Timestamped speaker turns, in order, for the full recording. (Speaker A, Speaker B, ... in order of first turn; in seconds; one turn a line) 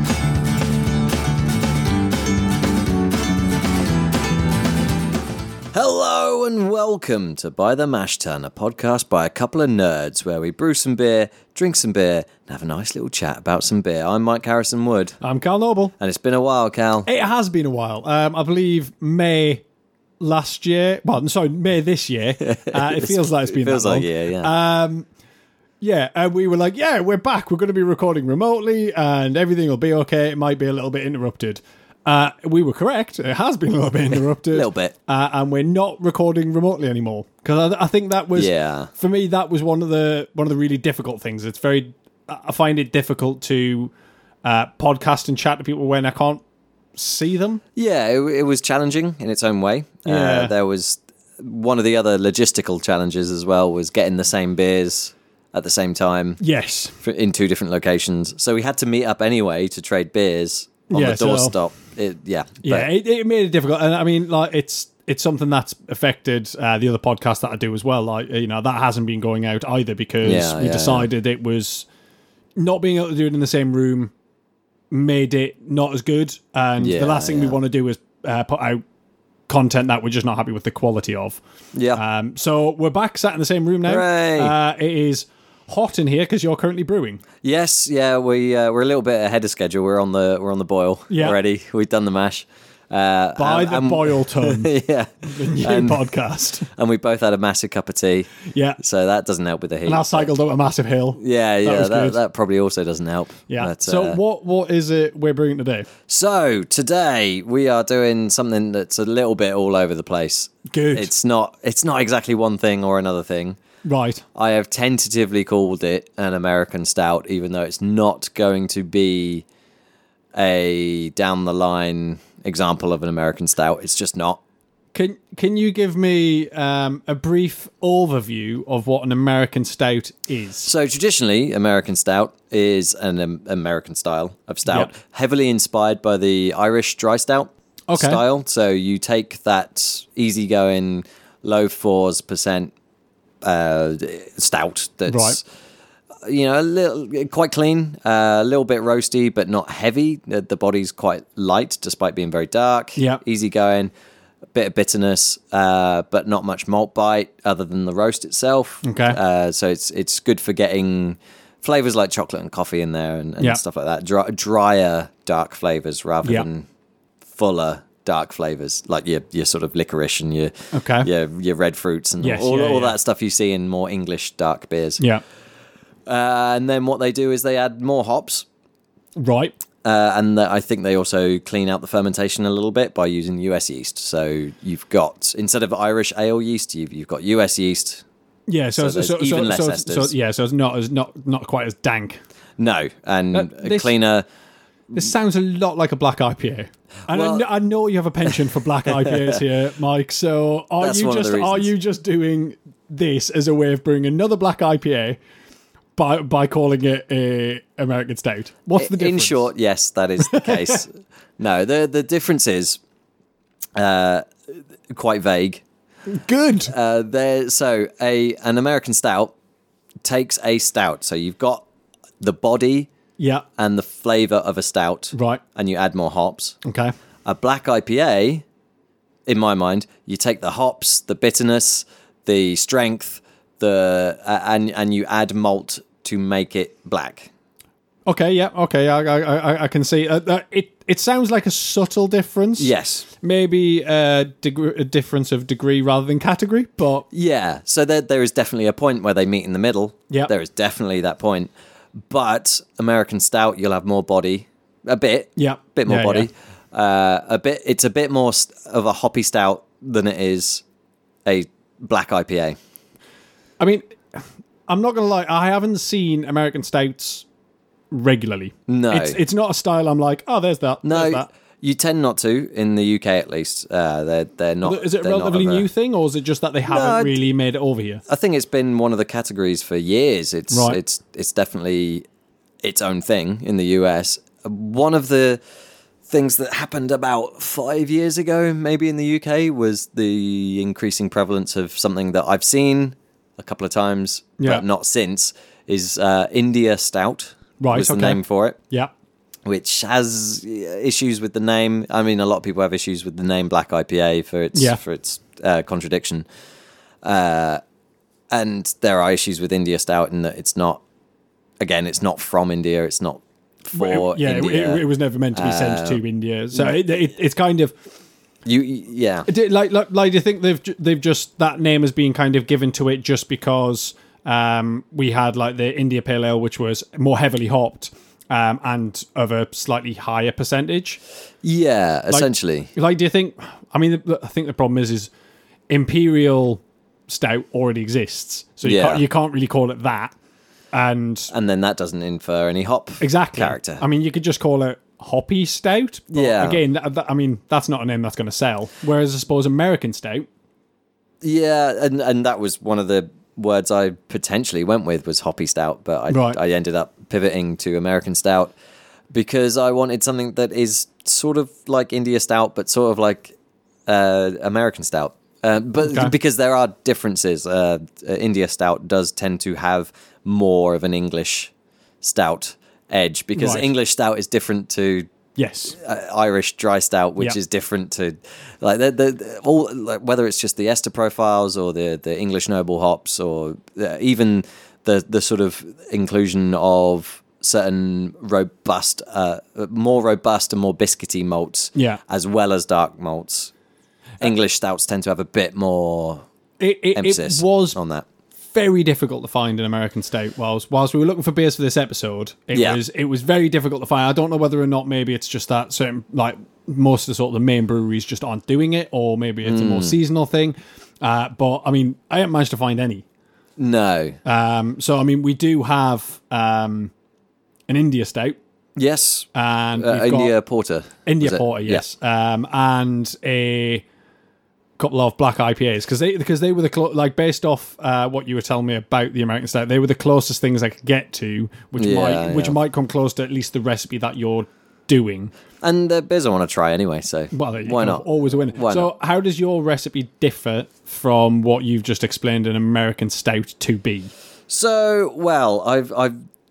Speaker A: 5.7-15.2
Speaker B: 15.2-15.9
Speaker A: 16.0-17.1
Speaker B: 17.1-19.6
Speaker B: 20.2-25.1
Speaker A: 22.4-24.5
Speaker B: 25.8-43.9
Speaker A: 34.5-34.9
Speaker A: 38.3-38.9
Speaker B: 44.4-46.4
Speaker B: 47.0-47.6
Speaker A: 47.8-56.4
Speaker B: 50.0-50.5
Speaker B: 56.4-57.0
Speaker A: 57.0-62.9
Speaker B: 60.9-61.5
Speaker B: 62.6-71.9
Speaker A: 70.2-71.1
Speaker B: 72.6-74.1
Speaker B: 74.9-78.8
Speaker A: 76.8-77.6
Speaker B: 79.5-81.4
Speaker A: 81.7-82.0
Speaker B: 82.0-87.2
Speaker A: 83.9-84.5
Speaker A: 87.4-96.1
Speaker B: 91.1-91.4
Speaker B: 93.4-94.7
Speaker B: 95.3-96.7
Speaker A: 96.7-100.3
Speaker B: 98.5-98.8
Speaker B: 99.9-102.2
Speaker A: 101.2-104.2
Speaker B: 103.5-105.9
Speaker A: 106.1-113.6
Speaker B: 110.7-111.1
Speaker B: 113.8-114.2
Speaker A: 114.3-119.5
Speaker A: 120.3-124.4
Speaker B: 124.9-130.7
Speaker A: 130.6-142.7
Speaker B: 137.9-138.2
Speaker A: 143.4-145.4
Speaker B: 145.1-145.4
Speaker A: 146.2-153.9
Speaker B: 153.0-153.2
Speaker A: 154.5-166.7
Speaker B: 158.8-159.2
Speaker A: 167.3-175.0
Speaker B: 170.7-171.1
Speaker B: 172.2-172.9
Speaker A: 176.1-178.5
Speaker B: 179.2-179.6
Speaker A: 179.8-188.0
Speaker B: 188.5-192.2
Speaker A: 188.8-190.1
Speaker A: 192.6-194.3
Speaker B: 193.3-193.9
Speaker B: 194.9-205.2
Speaker A: 197.1-197.4
Speaker A: 200.8-201.7
Speaker B: 206.0-209.5
Speaker A: 208.8-212.8
Speaker B: 210.3-210.8
Speaker A: 213.8-214.3
Speaker A: 214.9-215.6
Speaker B: 216.1-216.7
Speaker A: 216.7-219.3
Speaker A: 220.1-221.6
Speaker A: 222.2-222.9
Speaker B: 223.2-223.4
Speaker A: 223.6-226.6
Speaker B: 225.1-225.4
Speaker B: 226.6-226.9
Speaker A: 227.2-228.4
Speaker A: 229.3-237.3
Speaker B: 238.1-247.1
Speaker A: 242.6-243.1
Speaker A: 247.1-251.5
Speaker A: 252.1-260.6
Speaker B: 255.4-256.3
Speaker A: 261.2-262.6
Speaker B: 263.6-267.3
Speaker B: 267.9-271.3
Speaker A: 268.7-269.2
Speaker A: 270.8-275.7
Speaker B: 274.6-278.0
Speaker A: 276.7-277.2
Speaker A: 278.1-282.1
Speaker B: 280.5-280.8
Speaker A: 282.6-285.4
Speaker A: 286.1-298.6
Speaker B: 294.4-294.6
Speaker B: 297.6-298.9
Speaker A: 299.5-306.3
Speaker B: 304.6-304.8
Speaker A: 307.0-307.6
Speaker A: 308.3-310.8
Speaker A: 311.6-316.0
Speaker B: 313.8-317.8
Speaker A: 318.5-319.3
Speaker B: 319.3-331.0
Speaker A: 331.4-332.7
Speaker B: 332.1-335.1
Speaker B: 335.7-340.1
Speaker A: 338.6-339.0
Speaker B: 340.7-341.3
Speaker A: 341.3-343.8
Speaker B: 343.0-350.3
Speaker A: 346.1-346.6
Speaker A: 351.2-358.5
Speaker B: 356.1-356.4
Speaker A: 359.1-363.3
Speaker A: 363.9-375.1
Speaker B: 365.8-366.1
Speaker B: 373.4-373.7
Speaker B: 375.4-375.8
Speaker A: 375.7-393.5
Speaker B: 391.8-392.0
Speaker A: 394.2-396.2
Speaker B: 396.6-397.8
Speaker A: 396.9-398.1
Speaker B: 398.5-413.0
Speaker A: 402.5-402.8
Speaker A: 409.4-409.9
Speaker A: 413.6-414.2
Speaker B: 414.2-416.9
Speaker B: 417.7-418.4
Speaker A: 418.8-421.9
Speaker B: 419.3-420.3
Speaker B: 421.1-423.8
Speaker B: 424.8-435.3
Speaker A: 431.8-432.6
Speaker A: 435.6-438.9
Speaker B: 437.3-444.1
Speaker A: 444.5-446.1